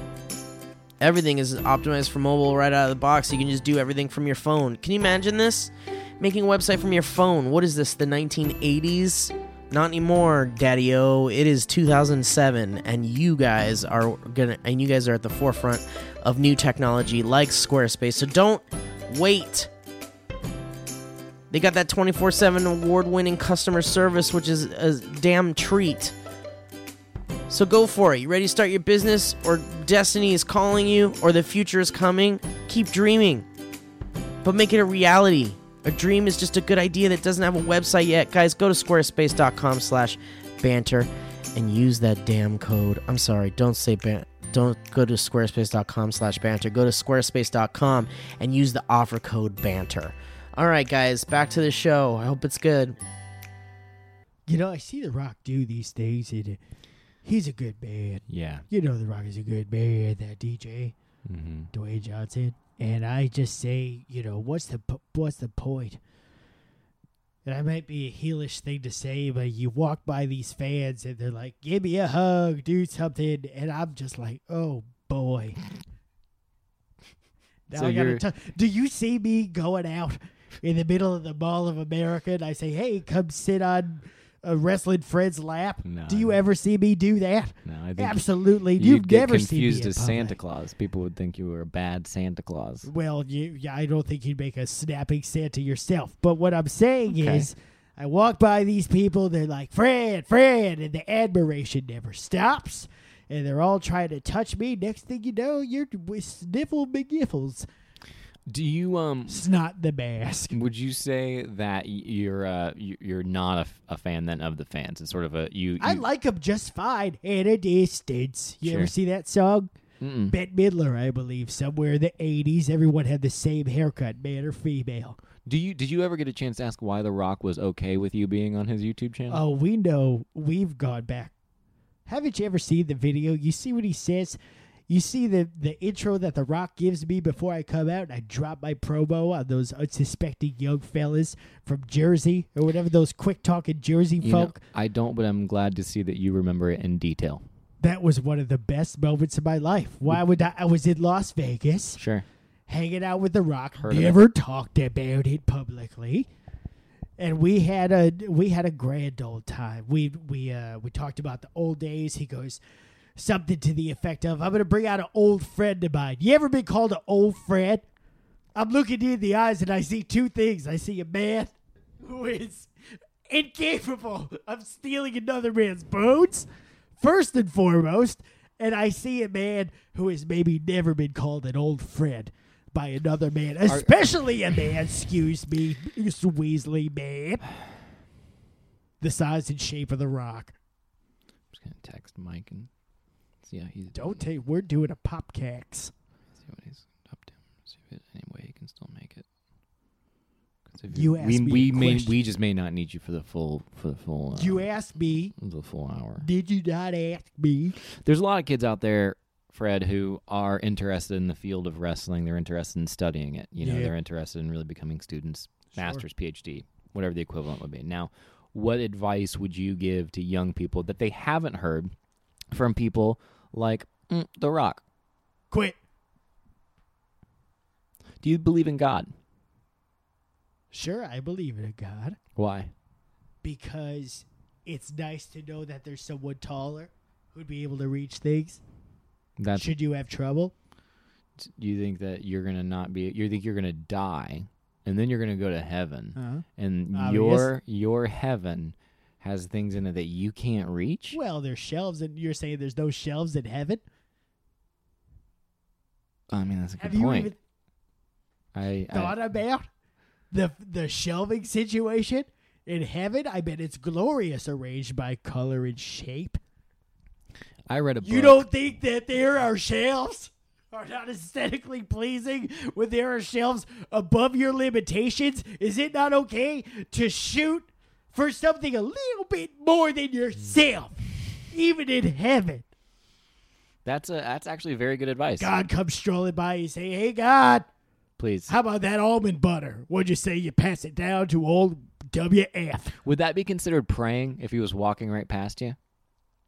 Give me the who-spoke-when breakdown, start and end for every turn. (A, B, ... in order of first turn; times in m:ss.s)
0:01.0-0:19.7 A
0:21.5-0:26.2 A
0:27.5-0:33.4 A
0:34.4-0:53.0 A
0:54.5-0:56.6 B
0:57.2-1:00.9 B
0:58.3-0:58.7 C
1:01.3-1:01.7 C
1:01.7-1:06.0 B
1:07.4-1:15.6 B
1:17.7-1:30.4 B
1:17.7-1:18.2 C
1:25.8-1:26.4 C
1:27.6-1:28.2 C
1:28.8-1:32.9 C
1:32.8-1:47.7 B
1:37.1-1:37.5 C
1:48.5-1:49.4 C
1:49.3-1:50.5 B
1:50.5-1:56.0 C
1:55.8-1:59.7 B
1:58.6-1:58.9 C
2:00.0-2:00.4 C
2:00.3-2:05.2 B
2:05.4-2:09.4 C
2:09.3-2:11.3 B
2:12.1-2:14.4 B
2:14.9-2:24.6 B
2:24.2-2:27.4 C
2:27.8-2:32.0 B
2:32.0-2:32.2 C
2:32.7-2:36.3 B
2:33.8-2:34.2 C
2:37.2-2:42.6 B
2:43.2-2:47.8 B
2:48.6-2:52.7 B
2:53.3-2:56.5 B
2:57.0-3:07.4 B
3:09.0-3:10.6 B
3:11.5-3:12.7 C
3:13.4-3:14.2 C
3:13.9-3:15.9 B
3:16.4-3:19.2 C
3:20.7-3:24.7 C
3:20.9-3:22.2 B
3:24.4-3:25.3 B
3:25.4-3:26.3 C
3:26.2-3:27.8 B
3:27.9-3:41.9 C
3:33.6-3:33.9 B
3:35.7-3:36.0 B
3:42.5-3:44.8 C
3:45.5-3:45.8 B
3:48.2-3:49.1 C
3:50.7-3:52.2 B
3:52.4-3:52.7 C
3:53.4-3:58.6 B
3:59.4-3:59.7 C
3:59.6-4:00.5 B
4:01.4-4:11.2 C
4:06.2-4:07.5 B
4:11.1-4:13.8 B
4:16.3-4:17.3 C
4:16.8-4:17.4 B
4:18.5-4:19.2 C
4:18.9-4:19.7 B
4:20.3-4:26.4 B
4:27.7-4:28.5 C
4:28.0-4:42.7 B
4:43.8-4:45.5 C
4:45.4-4:47.7 B
4:48.2-4:48.5 C
4:48.5-4:53.0 B
4:53.0-4:55.8 C